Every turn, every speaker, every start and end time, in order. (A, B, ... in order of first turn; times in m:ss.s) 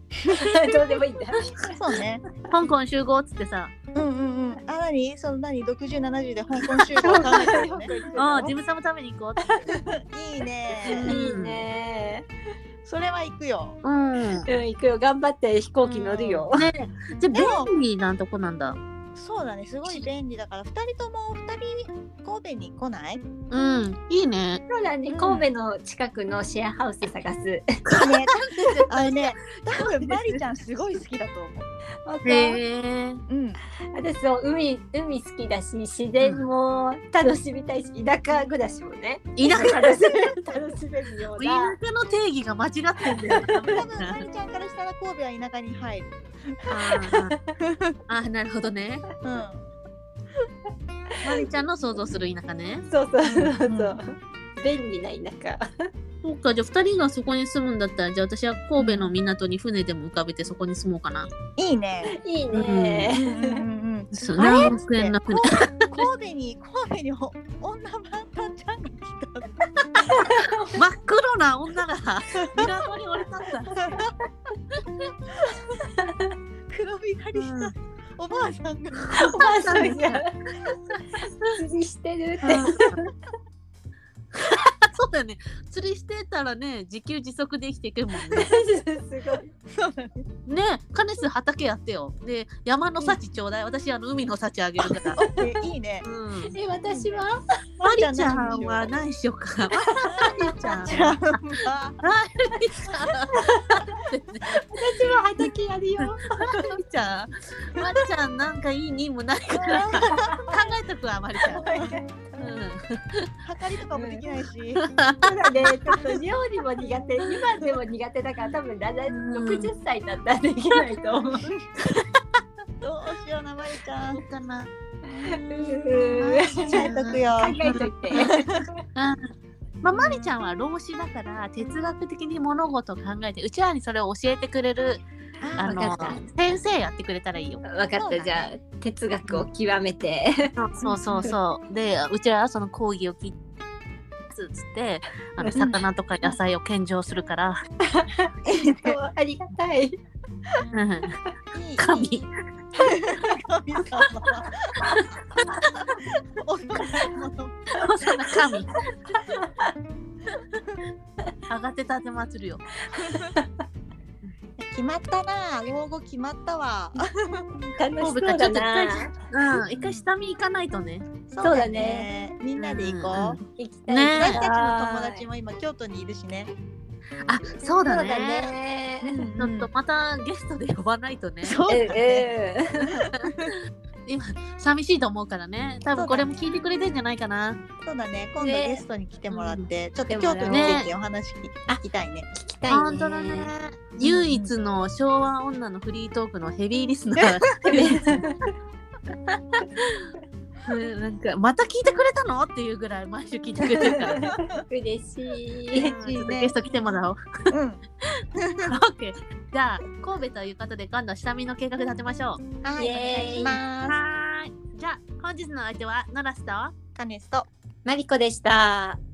0:00.3-0:01.7 A
0:01.4-0:02.2 B
0:02.5-0:03.7 C
0:04.0-0:08.6 B
0:06.9-0:07.6 C
0:07.0-0:08.1 A
0:08.1-0:09.7 C
0:09.7-0:11.2 B
0:10.8-0:12.3 A
0:10.9-0:11.6 C
0:12.8-0:13.8 B
0:13.8-0:14.5 C
0:14.5-0:16.7 A
0:15.9-0:16.5 B
0:16.5-0:18.8 C
0:17.3-0:17.7 B
0:19.2-0:23.3 B
0:23.5-0:24.6 C
0:24.7-0:27.7 A
0:25.1-0:25.5 B
0:27.9-0:30.2 C
0:28.0-0:31.7 B
0:32.0-0:32.6 A
0:32.2-0:33.2 C
0:33.3-0:33.6 B
0:33.9-0:41.8 A
0:36.2-0:36.5 C
0:39.4-0:40.4 C
0:41.4-0:44.2 C
0:43.2-0:43.8 A
0:43.4-0:46.1 B
0:46.7-0:47.4 C
0:47.6-0:48.0 B
0:48.1-0:49.1 C
0:49.2-0:49.7 B
0:51.2-0:52.9 C
0:52.9-0:55.9 A
0:53.2-0:54.0 B
0:56.2-1:01.3 C
0:58.8-0:59.2 B
1:01.6-1:02.2 B
1:02.2-1:03.6 A
1:02.5-1:03.1 C
1:03.2-1:09.5 B
1:04.1-1:06.1 C
1:10.7-1:13.9 C
1:13.8-1:14.1 B
1:16.0-1:16.3 A
1:16.7-1:19.2 B
1:17.4-1:17.7 C
1:19.1-1:20.2 C
1:19.2-1:20.6 A
1:21.6-1:23.0 A
1:22.4-1:22.7 B
1:22.5-1:23.0 C
1:24.4-1:28.5 C
1:28.3-1:29.4 A
1:29.8-1:30.2 B
1:30.5-1:35.2 C
1:35.2-1:35.5 A
1:35.2-1:36.1 B
1:36.0-1:36.6 C
1:36.5-1:37.4 A
1:36.8-1:37.2 B
1:37.8-1:39.0 B
1:37.8-1:41.4 C
1:40.1-1:42.0 B
1:42.0-1:45.4 C
1:43.3-1:43.8 A
1:44.7-1:46.7 A
1:46.0-1:51.6 C
1:49.6-1:50.4 B
1:49.9-1:50.5 A
1:51.5-1:52.2 A
1:51.5-1:52.0 B
1:52.4-1:53.3 C
1:53.4-1:54.9 B
1:53.9-1:54.2 A
1:54.8-1:55.7 C
1:55.2-2:01.5 A
1:55.9-1:56.2 B
1:59.1-1:59.7 C
2:02.8-2:04.2 B
2:04.1-2:04.7 C
2:05.2-2:07.6 B
2:05.2-2:08.7 A
2:06.1-2:08.2 C
2:08.2-2:08.5 B
2:09.8-2:15.0 C
2:15.4-2:16.2 A
2:15.6-2:17.6 C
2:17.7-2:21.4 A
2:18.0-2:18.5 B
2:20.6-2:23.4 C
2:24.3-2:27.6 C
2:25.4-2:25.8 A
2:28.0-2:30.0 A
2:28.5-2:29.0 B
2:30.6-2:30.9 B
2:30.7-2:31.2 C
2:31.5-2:32.2 B
2:31.8-2:32.3 C
2:32.8-2:34.6 B
2:36.4-2:37.8 B
2:37.8-2:38.8 C
2:39.2-2:39.5 A
2:41.5-2:42.6 C
2:42.9-2:43.5 A
2:44.6-2:47.5 B
2:47.8-2:49.1 A
2:48.0-2:51.1 C
2:49.7-2:50.1 B
2:51.3-2:53.4 B
2:51.4-2:52.1 A
2:52.6-2:54.5 C
2:53.6-2:55.3 A
2:54.1-2:56.5 B
2:57.3-2:58.5 C
2:57.4-2:59.2 A
2:57.7-2:58.4 B
2:59.0-2:59.7 B
2:59.4-3:01.6 C
3:01.4-3:02.3 B
3:01.7-3:03.0 A
3:03.3-3:03.5 C
3:04.1-3:07.6 C
3:05.9-3:06.5 B
3:07.8-3:12.3 B
3:08.4-3:08.8 A
3:09.3-3:09.6 C
3:10.1-3:10.9 A
3:10.5-3:10.9 C
3:12.3-3:13.5 A
3:12.7-3:18.2 C
3:14.0-3:14.5 B
3:17.7-3:18.5 A
3:19.3-3:19.6 A
3:20.6-3:24.2 C
3:23.9-3:26.0 A
3:25.8-3:27.5 C
3:25.8-3:26.6 B
3:27.5-3:27.8 B
3:28.2-3:32.4 C
3:28.4-3:28.8 B
3:32.6-3:34.0 B
3:32.8-3:33.6 A
3:33.9-3:36.7 C
3:37.0-3:37.5 B
3:37.8-3:39.0 A